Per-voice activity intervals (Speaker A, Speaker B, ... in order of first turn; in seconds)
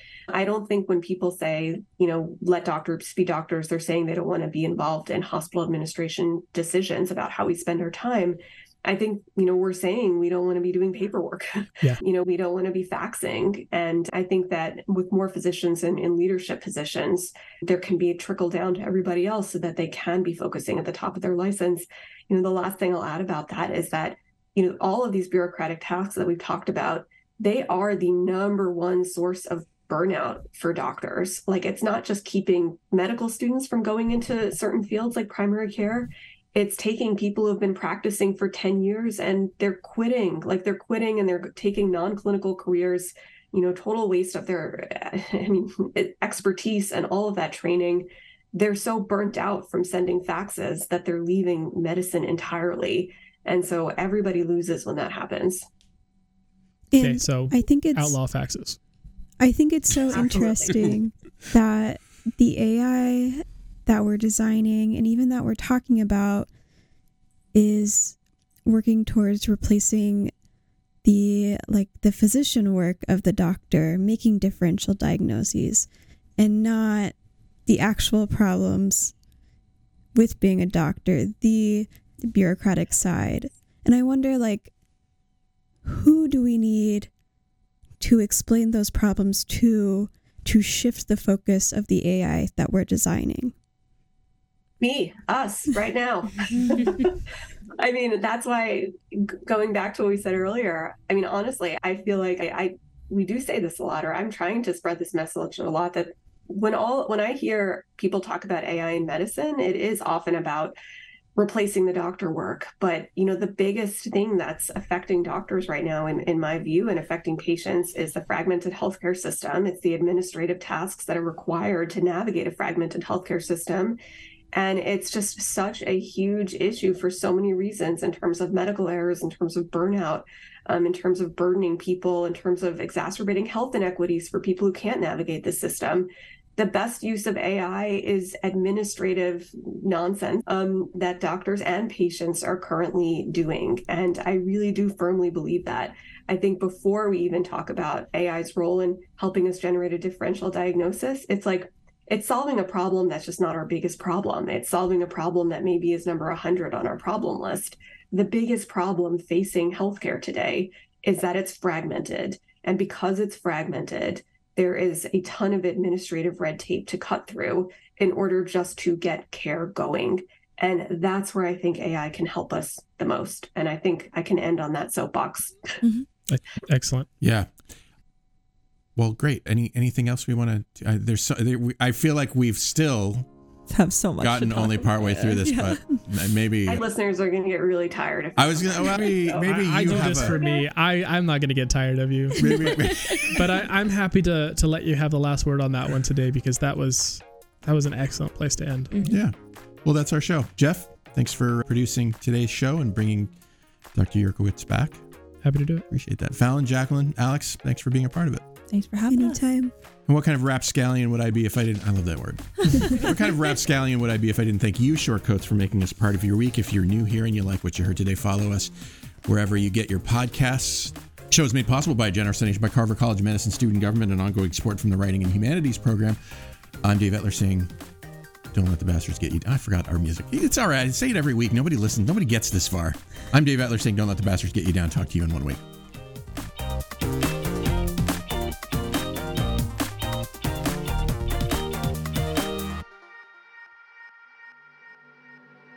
Speaker A: 0.3-55.6, 60.1-61.0, 94.8-97.1, 97.8-110.7, 111.4-124.0, 124.5-175.7, 186.7-190.7
Speaker B: 56.9-58.2, 59.4-66.5, 67.5-70.3, 71.0-75.9, 76.4-77.1, 77.7-79.1, 80.1-84.7, 85.8-87.1, 88.0-93.5, 209.1-209.7
Speaker C: 57.0-58.8, 176.3-177.1, 189.4-199.0, 205.4-205.9
Speaker D: 177.2-177.5, 178.9-183.3, 184.2-186.8, 188.4-190.4, 192.4-193.4, 199.0-203.3, 203.9-205.0, 205.9-208.4, 210.1-218.7, 219.2-226.2, 226.8-227.7, 228.5-235.6
Speaker E: 183.7-186.0, 208.7-209.4